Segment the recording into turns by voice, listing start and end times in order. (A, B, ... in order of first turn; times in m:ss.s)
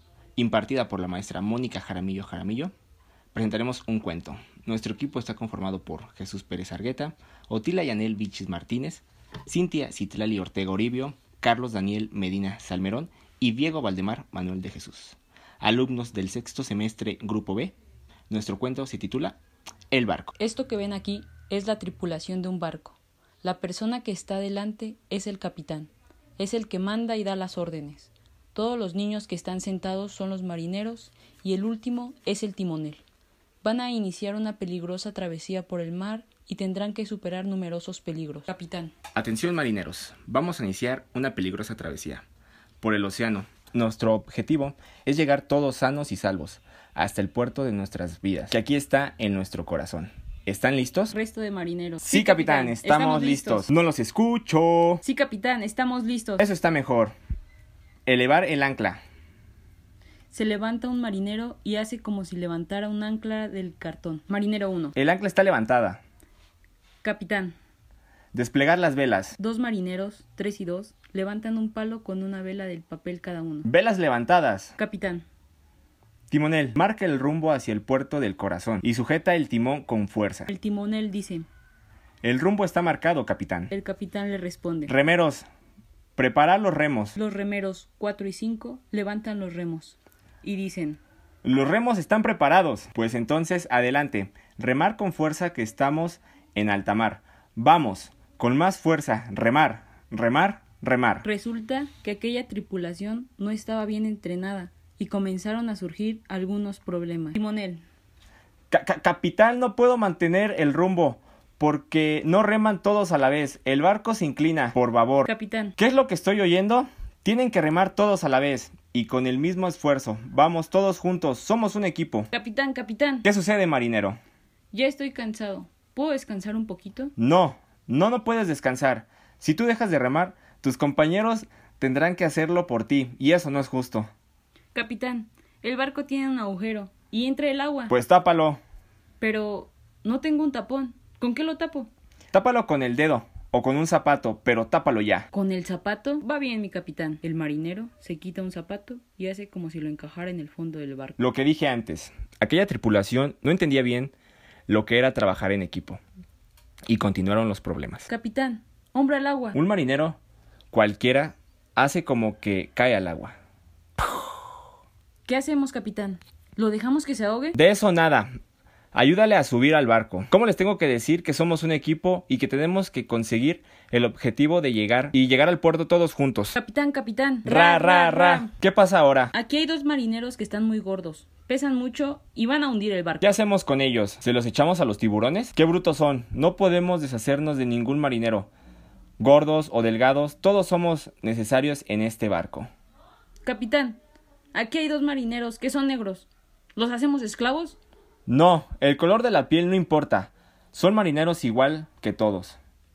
0:00.4-0:02.7 A
0:03.3-0:17.7 A
0:18.3-0:19.4 A
0:19.9-0:20.3 A
0:20.4-0:33.0 B
0:33.6-0:38.9 B
0:39.1-0:42.2 A
0:42.8-0:51.1 A
0:51.1-0:53.7 B
0:52.0-0:55.0 A
0:55.0-0:56.4 B
0:56.4-0:57.1 A
0:58.1-0:59.0 A
1:00.3-1:04.9 B
1:04.9-1:06.0 A
1:07.0-1:07.6 B
1:08.3-1:09.4 A
1:09.4-1:13.7 B
1:13.6-1:14.7 A
1:14.8-1:15.2 B
1:16.3-1:20.5 A
1:20.5-1:21.5 B
1:22.2-1:23.7 A
1:23.7-1:24.9 B
1:24.9-1:25.4 A
1:26.2-1:27.2 A
1:27.2-1:31.0 B
1:31.4-1:41.2 A
1:41.2-1:47.8 B
1:48.7-2:02.3 A
1:55.2-1:55.7 B
2:02.3-2:03.2 B
2:03.2-2:04.2 A
2:04.7-2:07.1 B
2:07.2-2:14.1 A
2:14.7-2:17.9 B
2:17.9-2:18.6 A
2:19.2-2:21.9 B
2:22.3-2:25.3 A
2:25.3-2:31.2 B
2:31.2-2:34.1 A
2:34.7-2:36.0 A
2:36.9-2:38.1 A
2:38.1-2:39.6 B
2:39.5-2:40.2 A
2:40.7-2:43.4 A
2:45.2-2:47.6 B
2:47.5-2:48.3 A
2:48.9-2:56.6 A
2:56.5-2:58.5 B
2:57.4-2:59.3 A
2:59.3-3:03.3 B
3:03.2-3:08.5 A
3:09.2-3:12.7 A
3:13.4-3:14.0 B
3:14.5-3:17.8 B
3:18.3-3:22.6 A